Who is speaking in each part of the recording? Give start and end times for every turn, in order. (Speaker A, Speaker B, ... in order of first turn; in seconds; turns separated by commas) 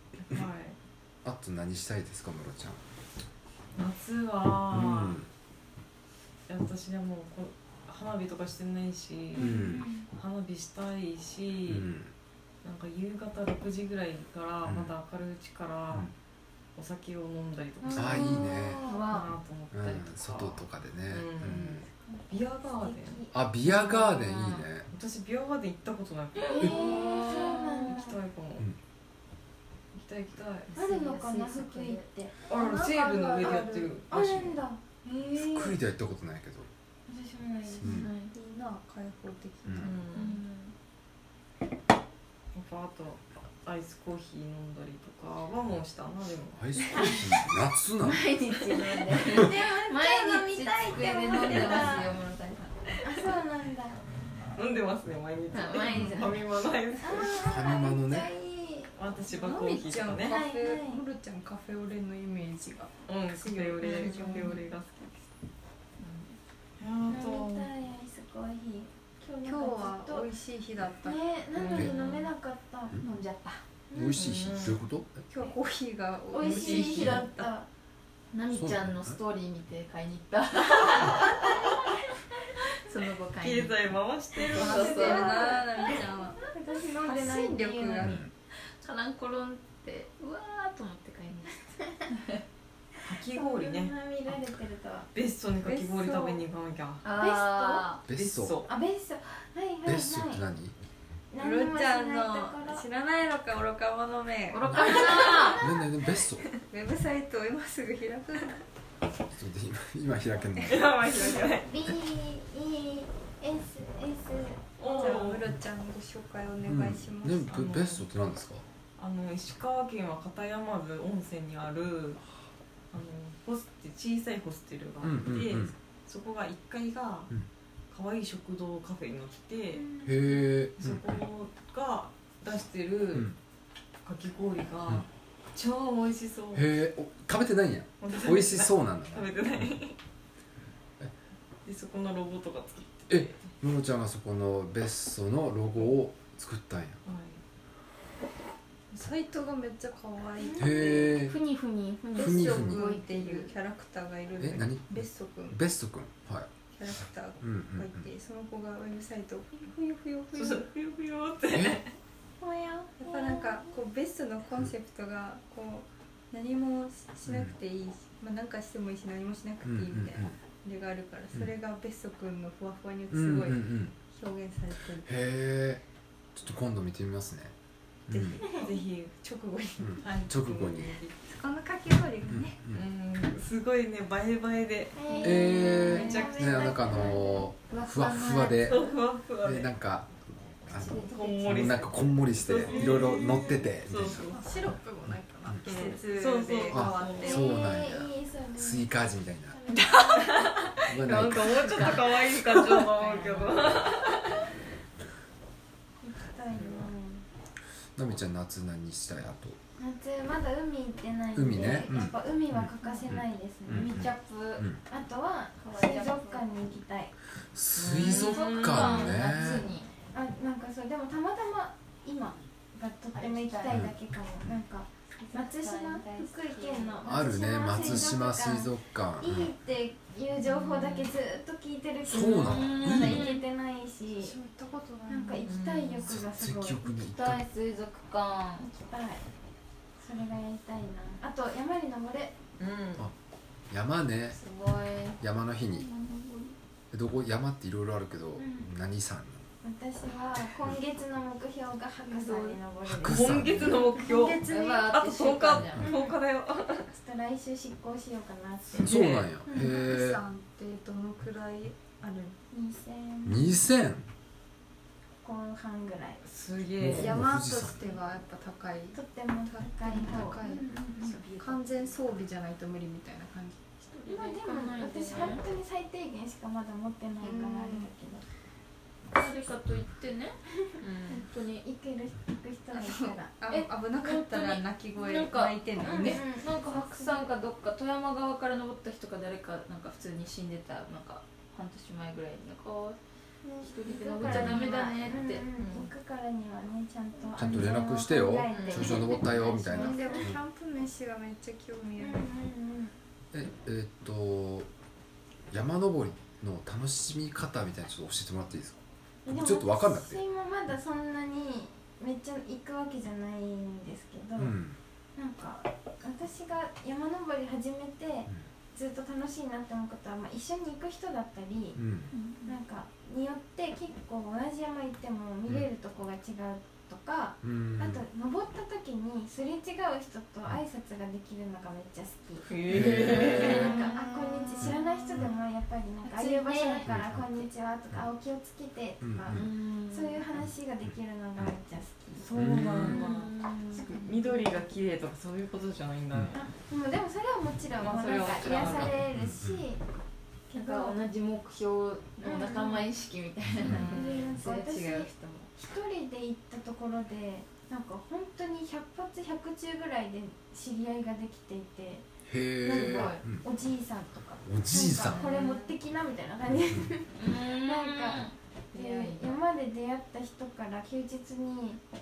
Speaker A: 0.3-0.8, Speaker B: 1.2-2.8, Speaker A: 3.8-5.2, Speaker B: 4.7-5.3, Speaker A: 6.5-9.6, Speaker C: 9.4-10.1, Speaker B: 9.4-9.9, Speaker A: 10.1-11.9, Speaker B: 11.7-12.1, Speaker A: 12.6-16.1, Speaker B: 14.7-14.9, Speaker A: 16.8-18.5, Speaker C: 17.8-19.1, Speaker B: 17.9-18.9, Speaker D: 18.8-19.3, Speaker A: 19.1-23.2, Speaker B: 19.7-21.9, Speaker C: 22.1-23.4, Speaker B: 23.3-24.9, Speaker D: 23.7-24.7, Speaker A: 24.9-28.7, Speaker D: 26.4-27.9, Speaker C: 26.5-28.2, Speaker A: 29.9-30.7, Speaker D: 30.7-32.0, Speaker C: 30.8-32.5, Speaker A: 32.5-34.6, Speaker E: 32.5-34.0, Speaker C: 34.1-34.8, Speaker B: 35.3-36.7, Speaker C: 35.5-35.7, Speaker C: 37.1-38.0, Speaker D: 37.7-38.3, Speaker B: 37.8-38.1, Speaker E: 38.3-40.0, Speaker B: 39.6-40.0, Speaker A: 39.8-40.4, Speaker D: 40.1-40.8, Speaker A: 42.5-46.6, Speaker B: 46.5-48.3, Speaker D: 48.0-53.3, Speaker C: 49.1-52.1, Speaker A: 51.6-52.0, Speaker C: 53.0-54.0, Speaker A: 54.6-57.4, Speaker D: 55.5-56.4, Speaker E: 55.9-56.2, Speaker C: 57.0-58.9, Speaker B: 57.3-58.3, Speaker A: 59.0-60.4, Speaker E: 59.3-64.6, Speaker C: 60.2-61.0, Speaker A: 63.1-65.2, Speaker D: 64.0-64.3, Speaker C: 64.0-64.6, Speaker D: 66.0-66.4, Speaker A: 66.8-67.7, Speaker C: 67.1-70.3, Speaker E: 69.4-71.2, Speaker C: 71.0-73.0, Speaker A: 71.5-72.3, Speaker B: 71.7-72.0, Speaker D: 73.0-73.6, Speaker C: 73.9-74.2, Speaker B: 73.9-75.1, Speaker A: 74.1-74.8, Speaker E: 75.3-77.5, Speaker C: 76.3-77.7, Speaker A: 76.4-77.3, Speaker D: 78.3-81.7, Speaker B: 78.5-79.2, Speaker D: 82.8-83.8, Speaker A: 83.4-85.3, Speaker C: 84.5-88.2, Speaker E: 84.5-88.2, Speaker D: 84.5-85.9, Speaker B: 88.0-88.3, Speaker D: 88.8-92.4, Speaker A: 93.0-94.0, Speaker C: 93.3-95.1, Speaker A: 95.1-97.0, Speaker E: 95.6-96.4, Speaker D: 97.0-98.0, Speaker C: 97.2-97.9, Speaker B: 98.1-98.6, Speaker A: 98.1-98.7, Speaker C: 98.7-100.4, Speaker B: 99.8-100.7, Speaker C: 101.3-102.9, Speaker E: 101.4-104.9, Speaker D: 104.5-105.7, Speaker B: 104.7-106.5, Speaker C: 104.8-105.7, Speaker E: 106.7-108.7, Speaker B: 109.3-111.0, Speaker A: 110.6-111.7, Speaker C: 111.6-115.3, Speaker A: 114.8-115.5, Speaker E: 114.9-117.9, Speaker B: 116.7-118.6, Speaker A: 117.5-118.0, Speaker A: 119.0-122.2, Speaker A: 122.9-127.3, Speaker B: 125.0-125.7, Speaker A: 127.9-129.8, Speaker C: 129.7-130.4, Speaker B: 130.0-131.2, Speaker A: 130.8-133.3, Speaker A: 134.0-136.7, Speaker B: 136.5-139.3, Speaker A: 138.0-140.0, Speaker A: 141.7-143.4, Speaker B: 143.1-147.0, Speaker A: 147.1-147.4, Speaker E: 148.9-151.2, Speaker C: 150.4-150.9, Speaker B: 150.6-151.3, Speaker D: 151.0-153.6, Speaker E: 152.2-155.6, Speaker B: 152.2-152.8, Speaker B: 154.4-156.5, Speaker E: 156.7-160.7, Speaker B: 157.4-158.1, Speaker A: 160.3-161.9, Speaker B: 161.5-161.8, Speaker C: 162.4-163.6, Speaker E: 163.0-175.1, Speaker B: 167.3-167.5, Speaker B: 169.6-170.3, Speaker B: 173.1-173.9, Speaker B: 175.0-175.8, Speaker B: 176.3-177.5, Speaker B: 178.1-178.4, Speaker E: 178.1-178.8, Speaker A: 178.4-181.1, Speaker B: 179.8-180.9, Speaker E: 181.1-182.6, Speaker B: 182.3-182.8, Speaker A: 182.7-187.0, Speaker C: 185.0-187.5, Speaker B: 185.2-188.9, Speaker E: 185.9-186.3, Speaker D: 187.7-188.8, Speaker A: 188.6-189.7, Speaker B: 189.4-190.2, Speaker B: 190.7-194.3, Speaker D: 190.7-191.3, Speaker A: 191.1-194.4, Speaker E: 191.1-191.4, Speaker C: 192.7-193.6, Speaker E: 194.2-197.7, Speaker A: 195.7-197.4, Speaker B: 196.7-199.6, Speaker C: 197.2-199.0, Speaker C: 199.5-200.3, Speaker A: 200.1-204.4, Speaker B: 200.9-202.0, Speaker C: 206.0-207.2, Speaker B: 208.0-209.6, Speaker C: 209.8-214.1, Speaker B: 211.3-214.8, Speaker D: 213.7-214.7, Speaker C: 214.9-217.1, Speaker D: 215.6-216.5, Speaker B: 217.5-219.7, Speaker A: 217.8-219.2, Speaker D: 218.0-219.9, Speaker C: 220.1-234.4, Speaker D: 223.1-223.9, Speaker B: 223.7-223.9, Speaker D: 225.2-228.3, Speaker B: 227.1-229.5, Speaker A: 230.5-231.1, Speaker B: 232.0-233.3, Speaker D: 232.3-233.5, Speaker E: 234.1-235.5, Speaker C: 235.1-236.9, Speaker A: 235.4-236.1, Speaker B: 236.0-237.4, Speaker D: 236.8-238.7, Speaker C: 238.7-239.3, Speaker C: 240.0-242.4, Speaker A: 242.6-243.1, Speaker B: 243.7-244.4, Speaker D: 244.3-246.6, Speaker B: 245.2-245.9, Speaker B: 246.9-249.4, Speaker C: 248.4-248.7, Speaker C: 249.6-253.8, Speaker D: 252.0-252.6, Speaker B: 252.8-253.9, Speaker A: 253.1-256.9, Speaker E: 254.0-254.9, Speaker D: 254.4-255.9, Speaker B: 255.5-255.9, Speaker C: 255.8-256.2, Speaker C: 256.9-259.8, Speaker A: 258.7-259.3, Speaker B: 258.8-260.2, Speaker E: 259.5-262.4, Speaker C: 262.5-263.6, Speaker B: 263.2-264.1, Speaker C: 265.2-266.2, Speaker A: 266.2-267.2, Speaker B: 266.8-267.9, Speaker E: 266.8-273.6, Speaker C: 268.9-270.5, Speaker D: 270.0-272.0, Speaker D: 273.9-275.4, Speaker C: 274.1-278.2, Speaker E: 277.2-277.9, Speaker D: 279.1-281.6, Speaker C: 280.7-283.3, Speaker E: 282.7-286.3, Speaker D: 283.5-293.0, Speaker C: 285.8-287.2, Speaker C: 293.4-300.3, Speaker D: 293.6-295.8, Speaker B: 294.2-294.6, Speaker A: 295.6-295.9, Speaker B: 297.4-300.4, Speaker D: 298.6-298.9, Speaker E: 299.7-302.3, Speaker C: 302.0-302.9, Speaker B: 303.3-304.7, Speaker B: 305.5-310.2, Speaker C: 309.2-314.6, Speaker B: 314.4-314.8, Speaker C: 315.2-321.8, Speaker B: 321.8-322.1, Speaker D: 322.1-322.6, Speaker C: 322.5-343.2, Speaker B: 327.4-328.1, Speaker A: 332.5-333.8, Speaker B: 332.7-333.6, Speaker D: 332.9-335.3, Speaker B: 334.6-335.3, Speaker D: 336.0-337.4, Speaker B: 336.9-337.2, Speaker B: 339.0-339.5, Speaker D: 339.3-340.3, Speaker A: 342.2-346.4, Speaker B: 342.4-343.0, Speaker D: 342.8-344.1, Speaker C: 343.7-344.4, Speaker C: 346.3-349.8, Speaker A: 347.8-349.0, Speaker D: 347.8-348.9, Speaker B: 349.1-349.6, Speaker D: 350.5-355.5, Speaker C: 350.5-351.0, Speaker C: 352.2-352.9, Speaker B: 353.6-353.9, Speaker C: 353.6-362.1, Speaker A: 353.8-354.3, Speaker B: 362.3-363.4, Speaker C: 362.6-371.8, Speaker D: 362.7-363.2, Speaker B: 364.4-365.3, Speaker D: 364.9-365.7, Speaker B: 366.5-366.9, Speaker D: 367.1-369.4